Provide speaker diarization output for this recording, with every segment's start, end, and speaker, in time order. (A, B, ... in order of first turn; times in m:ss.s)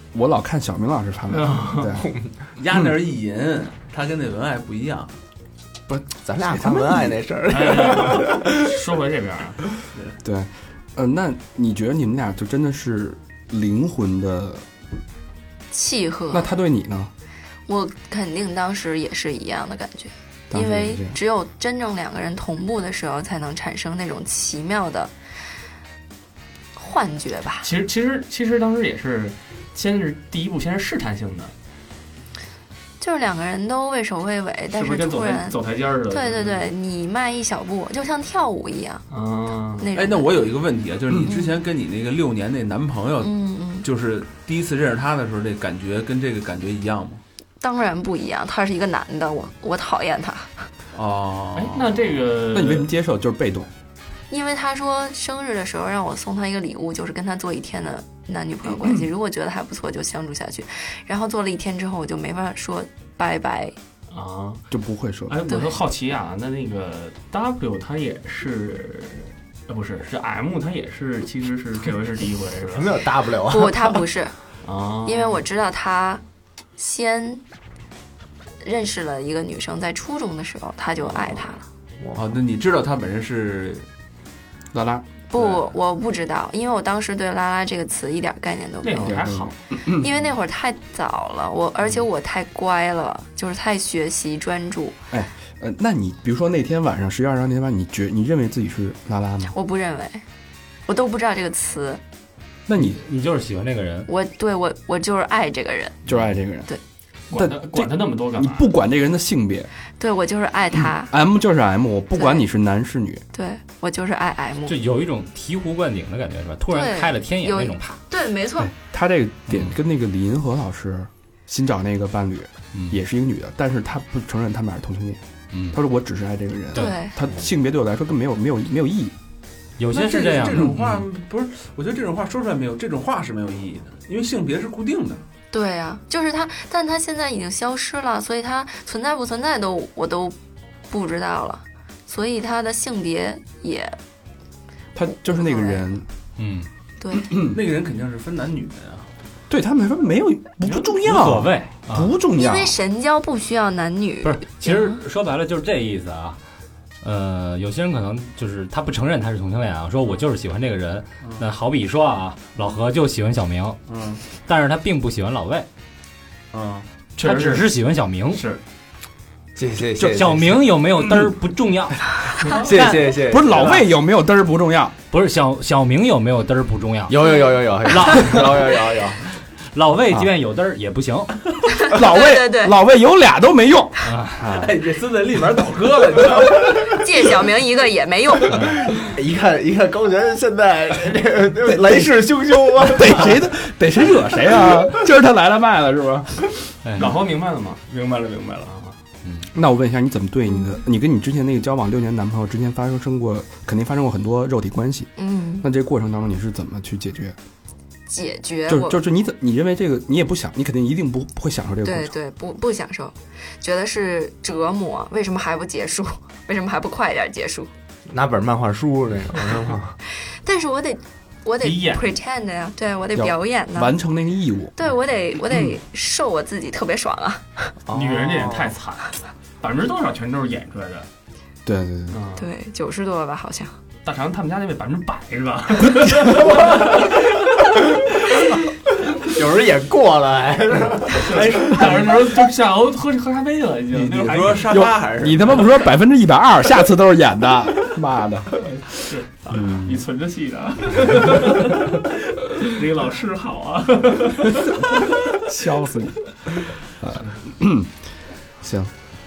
0:00.1-0:02.1 A
0:01.3-0:01.9 B
0:01.9-0:02.4 C
0:02.6-0:05.1 D
0:05.9-0:07.2 A
0:06.1-0:08.6 C
0:07.5-0:09.7 B
0:10.2-0:14.6 A
0:15.7-0:16.5 E
0:16.3-0:17.1 A
0:17.7-0:25.1 E
0:20.5-0:21.2 A
0:26.8-0:27.7 E
0:27.6-0:31.5 B
0:33.0-0:35.6 E
0:34.7-0:36.6 B
0:36.1-0:39.0 E
0:39.1-0:39.9 B
0:39.8-0:40.3 E
0:39.9-0:47.2 D
0:43.2-0:43.8 E
0:47.6-0:50.7 E
0:50.9-0:52.0 D
0:51.5-0:52.9 B
0:52.5-0:53.7 A
0:54.3-1:03.7 E
1:04.1-1:04.6 B
1:04.7-1:05.4 A
1:05.3-1:13.0 B
1:12.6-1:14.0 C
1:13.5-1:14.4 E
1:14.6-1:15.4 B
1:15.0-1:16.2 E
1:16.8-1:17.4 E
1:18.6-1:21.6 E
1:22.0-1:22.4 C
1:22.1-1:23.9 D
1:24.7-1:25.0 A
1:25.3-1:29.2 E
1:25.4-1:25.6 D
1:28.8-1:29.6 B
1:29.0-1:30.1 A
1:29.9-1:35.0 E
1:35.1-1:39.5 A
1:39.5-1:40.2 E
1:40.9-1:42.0 E
1:42.7-1:43.0 A
1:42.8-1:44.1 F
1:44.1-1:46.0 E
1:46.0-1:46.7 A
1:47.3-1:48.7 B
1:47.3-1:49.7 A
1:50.0-1:51.1 E
1:50.8-1:53.2 A
1:52.2-1:52.4 E
1:53.3-1:54.8 E
1:54.6-1:58.0 F
1:56.7-1:58.7 E
1:58.6-2:09.1 A
1:59.5-1:59.7 F
2:05.5-2:05.8 F
2:06.8-2:07.1 E
2:09.8-2:11.0 F
2:09.9-2:15.2 D
2:15.5-2:20.4 E
2:20.9-2:24.0 E
2:24.9-2:26.0 A
2:25.2-2:25.9 E
2:26.4-2:26.7 F
2:27.0-2:27.3 E
2:27.3-2:27.6 A
2:27.3-2:29.1 D
2:29.5-2:32.7 A
2:31.0-2:32.1 F
2:32.3-2:34.9 E
2:34.2-2:36.4 F
2:37.0-2:45.7 F
2:43.9-2:44.2 D
2:46.5-2:46.9 D
2:47.2-2:47.7 B
2:47.2-2:48.4 F
2:48.3-2:48.6 B
2:49.6-2:50.6 C
2:50.0-2:53.2 F
2:52.5-2:53.8 C
2:53.3-2:54.9 A
2:55.1-2:58.9 F
2:57.1-2:59.2 C
2:59.7-3:01.4 F
3:01.8-3:02.7 E
3:01.9-3:03.9 A
3:04.0-3:04.4 F
3:04.5-3:06.9 D
3:06.9-3:08.6 E
3:08.5-3:08.8 F
3:09.0-3:13.4 C
3:11.6-3:12.2 A
3:12.8-3:16.4 A
3:16.8-3:17.1 F
3:17.0-3:17.9 B
3:18.0-3:18.6 D
3:18.6-3:18.9 B
3:19.2-3:19.5 F
3:19.5-3:27.4 A
3:25.2-3:25.6 E
3:28.1-3:29.0 E
3:28.7-3:32.1 A
3:31.8-3:37.7 E
3:38.1-3:40.0 C
3:40.4-3:43.9 E
3:41.6-3:42.1 B
3:43.2-3:44.8 A
3:44.8-3:47.7 E
3:47.8-3:48.8 C
3:47.9-3:51.1 B
3:51.6-3:52.2 A
3:52.1-3:52.5 B
3:52.4-3:53.7 E
3:54.0-3:57.5 B
3:56.5-3:56.7 C
3:59.2-4:02.1 C
4:01.2-4:04.7 B
4:03.9-4:05.8 D
4:04.7-4:08.8 A
4:09.0-4:14.8 B
4:09.5-4:10.0 A
4:15.4-4:17.9 A
4:18.6-4:18.9 A